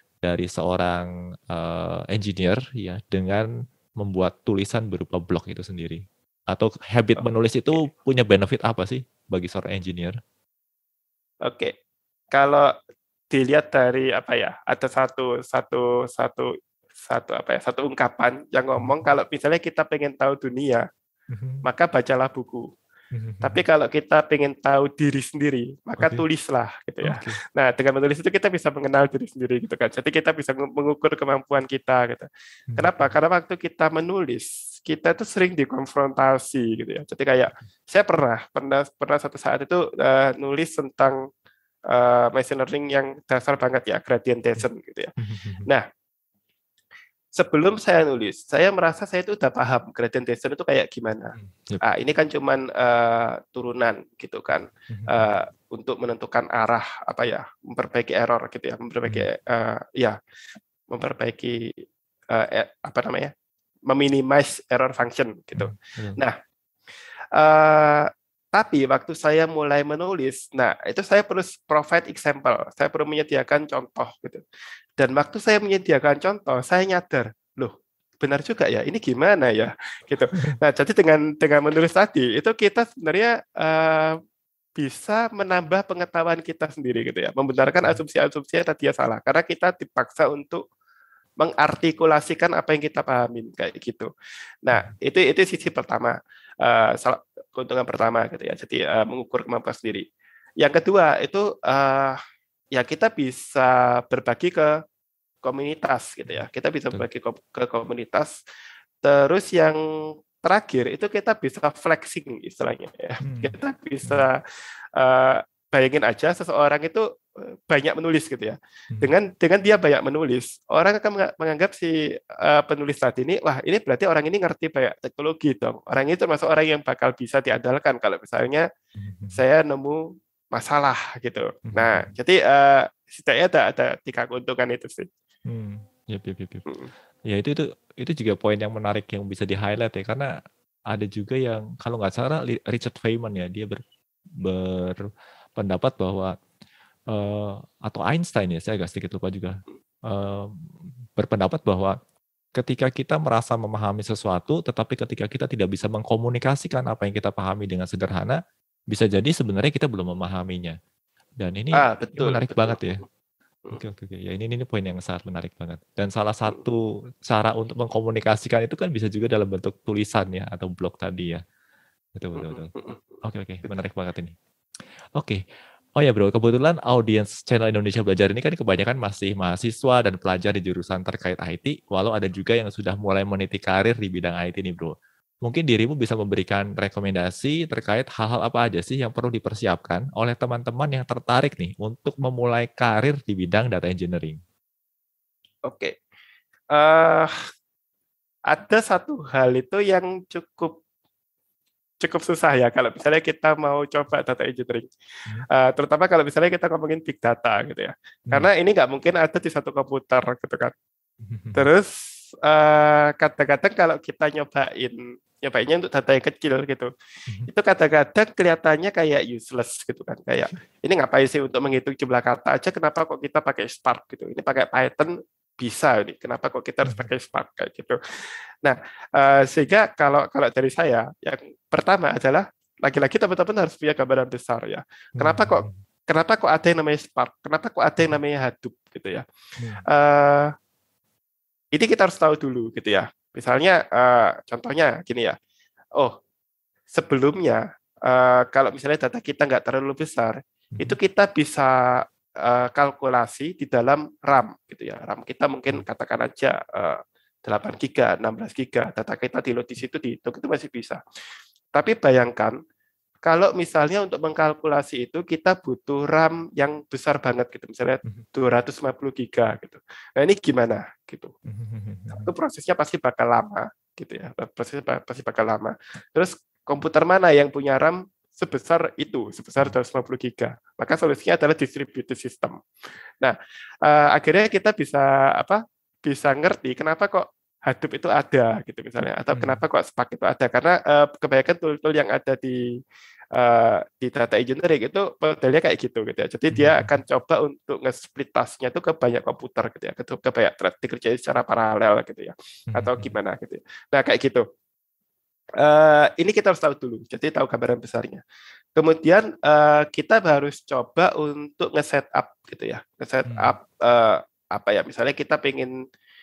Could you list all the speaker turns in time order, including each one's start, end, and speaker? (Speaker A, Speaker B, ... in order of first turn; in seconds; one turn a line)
Speaker A: 0.2-10.2
Speaker B: 11.4-11.7
Speaker B: 12.3-12.7
Speaker B: 13.3-16.5
Speaker B: 17.0-20.9
Speaker A: 18.8-19.0
Speaker A: 21.3-21.6
Speaker B: 21.6-22.7
Speaker A: 23.1-23.6
Speaker B: 23.4-41.2
Speaker A: 26.0-26.2
Speaker A: 27.0-27.4
Speaker A: 32.7-33.0
Speaker B: 41.9-45.1
Speaker A: 45.2-45.7
Speaker B: 47.4-60.1
Speaker A: 51.3-51.8
Speaker A: 54.9-55.3
Speaker B: 60.9-63.3
Speaker B: 63.9-66.3
Speaker A: 65.5-66.2
Speaker B: 67.3-74.4
Speaker B: 75.0-84.2
Speaker B: 84.8-90.6
Speaker B: 91.4-94.1
Speaker B: 94.6-100.0
Speaker B: 100.6-102.2
Speaker B: 102.7-104.7
Speaker B: 105.4-108.3
Speaker A: 106.3-107.0
Speaker B: 109.0-109.8
Speaker B: 110.4-114.4
Speaker A: 113.2-113.5
Speaker B: 115.0-128.7
Speaker A: 128.9-129.4
Speaker B: 129.3-135.1
Speaker A: 131.7-132.1
Speaker A: 135.4-136.7
Speaker A: 137.3-140.3
Speaker A: 140.9-143.8
Speaker A: 144.4-146.3
Speaker A: 147.1-151.9
Speaker A: 152.5-158.4
Speaker A: 158.9-160.8
Speaker A: 161.4-163.0
Speaker B: 161.7-163.0
Speaker A: 163.7-171.4
Speaker A: 172.1-172.7
Speaker B: 172.3-173.1
Speaker A: 173.2-174.3
Speaker A: 175.2-175.4
Speaker A: 175.9-194.4
Speaker B: 195.7-196.0
Speaker B: 196.7-197.3
Speaker B: 198.5-200.8
Speaker B: 202.0-204.9
Speaker B: 205.5-210.7
Speaker A: 211.2-211.7
Speaker B: 211.5-216.9
Speaker B: 217.5-228.0
Speaker A: 226.8-227.1
Speaker B: 228.6-239.2
Speaker A: 235.2-235.8
Speaker A: 239.6-239.8
Speaker B: 239.9-240.5
Speaker B: 241.7-245.3
Speaker B: 246.9-261.0
Speaker B: 261.7-262.6
Speaker B: 263.2-271.3
Speaker A: 271.4-272.3
Speaker B: 272.1-282.6
Speaker B: 283.2-292.6
Speaker A: 289.3-289.6
Speaker B: 293.3-304.4
Speaker A: 296.5-296.9
Speaker A: 302.7-303.1
Speaker B: 305.6-308.2
Speaker B: 308.8-315.7
Speaker A: 313.3-313.5